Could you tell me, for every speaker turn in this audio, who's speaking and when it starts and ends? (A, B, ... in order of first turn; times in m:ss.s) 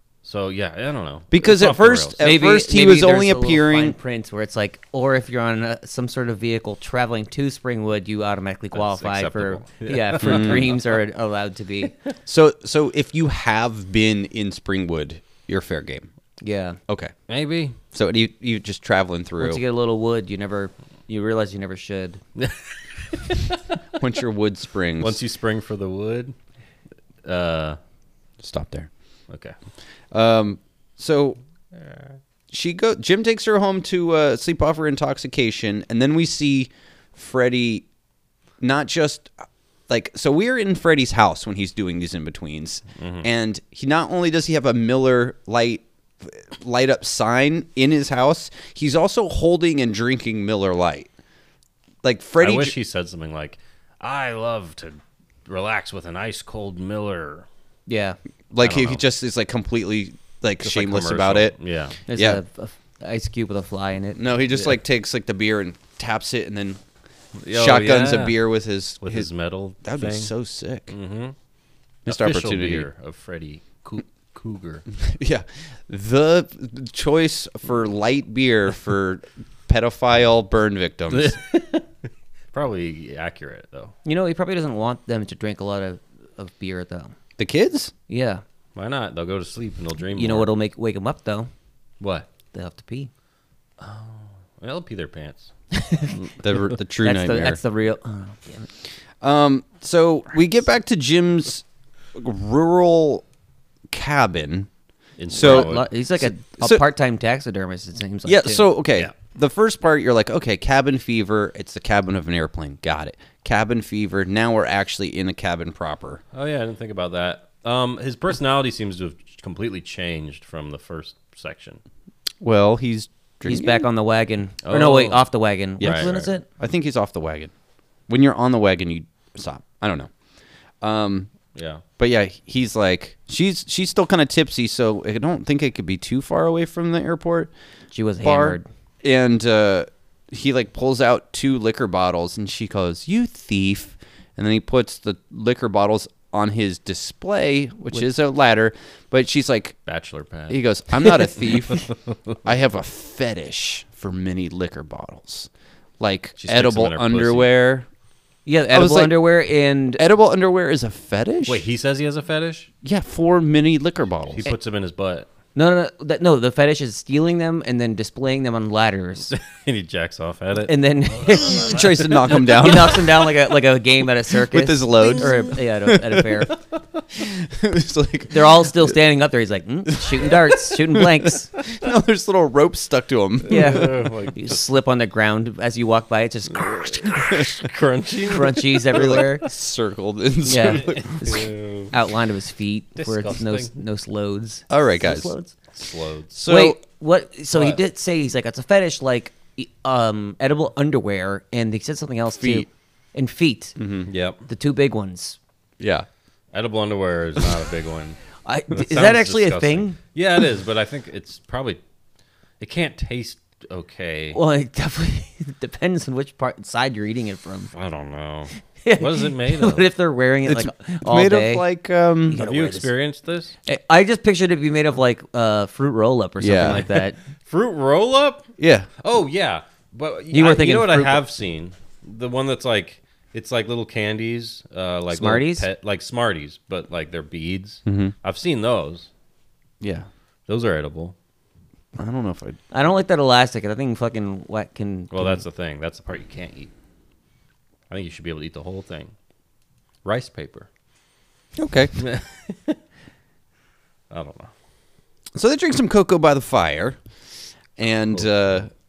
0:00.2-0:02.2 A
0:01.3-0:04.0 B
0:02.2-0:11.9 C
0:08.7-0:11.0 A
0:10.2-0:10.6 B
0:12.3-0:16.1 B
0:16.4-0:16.8 C
0:16.9-0:17.1 B
0:17.3-0:17.8 A
0:17.9-0:19.6 B
0:19.4-0:22.2 C
0:22.4-0:23.6 A
0:24.0-0:25.2 B
0:25.0-0:26.4 A
0:27.2-0:27.8 A
0:28.4-0:28.9 B
0:29.3-0:29.6 A
0:30.1-0:31.4 B
0:32.5-0:37.8 B
0:38.6-0:39.3 B
0:39.9-0:51.1 B
0:43.0-0:43.3 A
0:52.0-0:52.8 B
0:52.4-0:57.5 A
0:57.9-0:58.2 C
0:58.5-1:01.6 B
0:58.6-0:59.0 A
1:00.6-1:02.0 A
1:02.1-1:04.2 C
1:02.1-1:02.4 B
1:04.2-1:06.8 B
1:07.4-1:08.4 A
1:07.5-1:09.3 B
1:09.0-1:10.3 A
1:09.8-1:10.9 B
1:10.9-1:11.4 A
1:12.1-1:12.9 B
1:12.1-1:14.8 A
1:15.0-1:21.4 B
1:21.1-1:21.9 A
1:22.5-1:23.9 A
1:24.0-1:27.2 C
1:27.4-1:27.9 B
1:28.1-1:28.4 C
1:28.8-1:30.5 A
1:30.2-1:31.5 C
1:32.0-1:32.3 A
1:32.5-1:33.1 C
1:33.8-1:35.5 A
1:35.7-1:36.2 C
1:36.3-1:37.6 B
1:37.0-1:38.7 C
1:39.2-1:43.2 B
1:43.9-1:44.7 B
1:45.2-1:45.9 A
1:45.3-1:46.8 B
1:45.4-1:48.7 C
1:48.2-1:56.2 B
1:56.3-2:01.8 A
2:02.4-2:03.9 B
2:03.5-2:06.4 C
2:04.6-2:05.2 A
2:05.8-2:06.3 A
2:05.8-2:07.5 B
2:08.1-2:10.1 B
2:10.8-2:11.3 B
2:11.6-2:11.8 A
2:12.0-2:17.5 B
2:17.9-2:18.7 C
2:18.2-2:29.8 B
2:29.9-2:31.9 A
2:30.5-2:31.9 B
2:32.4-2:35.5 B
2:36.0-2:37.9 B
2:36.4-2:37.5 A
2:38.5-2:40.0 C
2:38.7-2:39.2 B
2:40.0-2:41.6 B
2:41.5-2:42.7 A
2:42.8-2:44.5 B
2:44.3-2:45.3 A
2:45.6-2:49.3 C
2:49.3-2:52.0 A
2:50.7-2:56.5 C
2:51.4-2:53.1 B
2:54.5-2:56.5 B
2:57.1-2:58.9 B
2:58.3-3:01.5 C
2:59.9-3:04.0 B
3:03.5-3:04.6 A
3:03.5-3:07.5 C
3:06.5-3:09.3 A
3:08.3-3:09.5 C
3:08.9-3:11.4 B
3:10.5-3:15.6 C
3:10.7-3:11.9 A
3:13.0-3:13.7 A
3:14.7-3:15.3 B
3:15.7-3:16.3 A
3:16.3-3:16.8 B
3:16.4-3:23.8 C
3:22.4-3:22.7 B
3:23.8-3:24.1 B
3:24.1-3:24.4 A
3:24.5-3:25.4 C
3:25.8-3:26.1 B
3:26.5-3:28.2 A
3:28.4-3:30.0 C
3:28.7-3:31.8 A
3:32.6-3:34.4 A
3:34.3-3:37.7 C
3:37.7-3:39.8 A
3:38.8-3:41.6 C
3:40.5-3:42.4 B
3:42.3-3:42.9 C
3:42.4-3:43.6 A
3:43.7-3:47.2 C
3:46.4-3:46.9 B
3:47.4-3:59.1 A
3:48.6-3:48.9 B
3:50.3-3:51.2 C
3:55.1-3:55.7 C
3:57.9-3:58.1 B
3:59.8-4:00.1 B
4:00.5-4:01.2 A
4:02.0-4:02.6 B
4:02.7-4:05.4 C
4:05.1-4:06.7 A
4:07.9-4:09.1 A
4:10.0-4:10.7 A
4:11.6-4:12.0 B
4:12.0-4:12.8 A
4:14.1-4:14.5 A
4:15.4-4:17.0 B
4:17.8-4:18.7 B